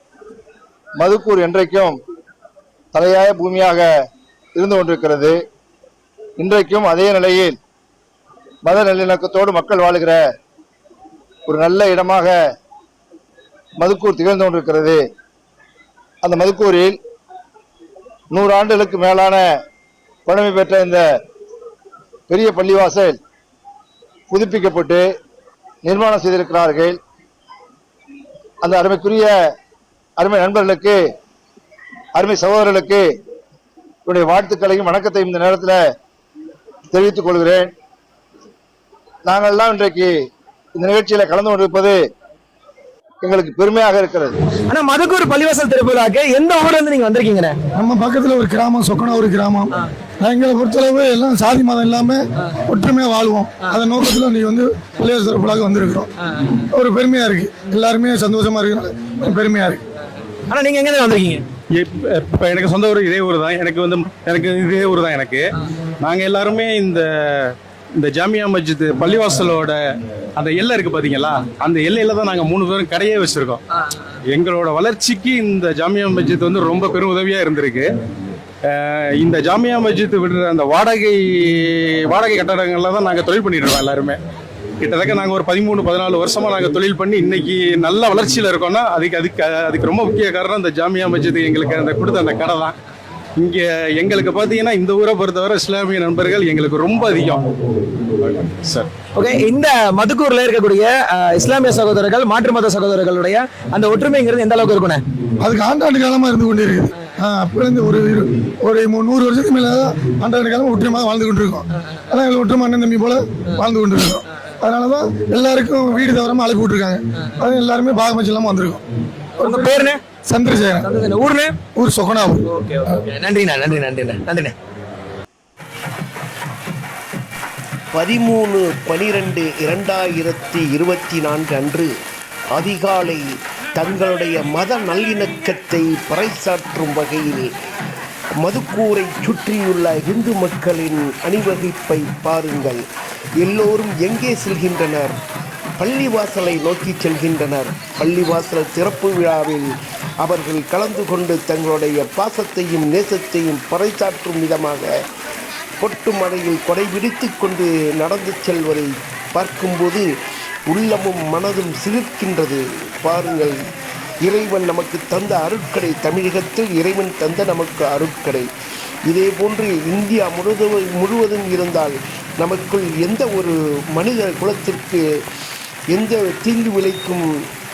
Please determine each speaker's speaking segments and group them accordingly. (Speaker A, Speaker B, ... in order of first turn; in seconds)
Speaker A: 1.0-2.0, 2.9-3.9, 4.6-5.4, 6.4-7.6, 8.7-10.2, 11.5-12.3, 13.8-15.0, 16.2-17.0, 18.3-19.4, 20.3-21.1, 22.3-23.2, 24.3-25.1, 25.9-27.0, 28.6-29.4, 30.2-31.0, 32.2-33.0, 34.1-35.8, 36.9-37.7, 39.3-40.1, 40.8-42.0, 43.2-44.4
Speaker B: 44.7-47.6, 60.5-61.5, 99.2-105.0, 119.4-120.1, 120.8-121.7, 122.5-124.5
Speaker C: 47.8-56.1, 56.7-59.8, 105.4-118.8, 120.3-120.8, 121.8-122.4
Speaker D: 61.8-69.8, 70.4-73.6, 74.3-77.9, 78.7-84.2, 84.8-92.8, 93.4-97.4, 98.2-98.9
Speaker E: 127.9-131.9, 132.5-133.2, 133.8-137.5, 138.4-142.8, 143.4-145.2, 145.8-154.9, 155.8-160.1, 160.7-163.6, 164.3-168.5, 169.1-175.0, 175.9-177.3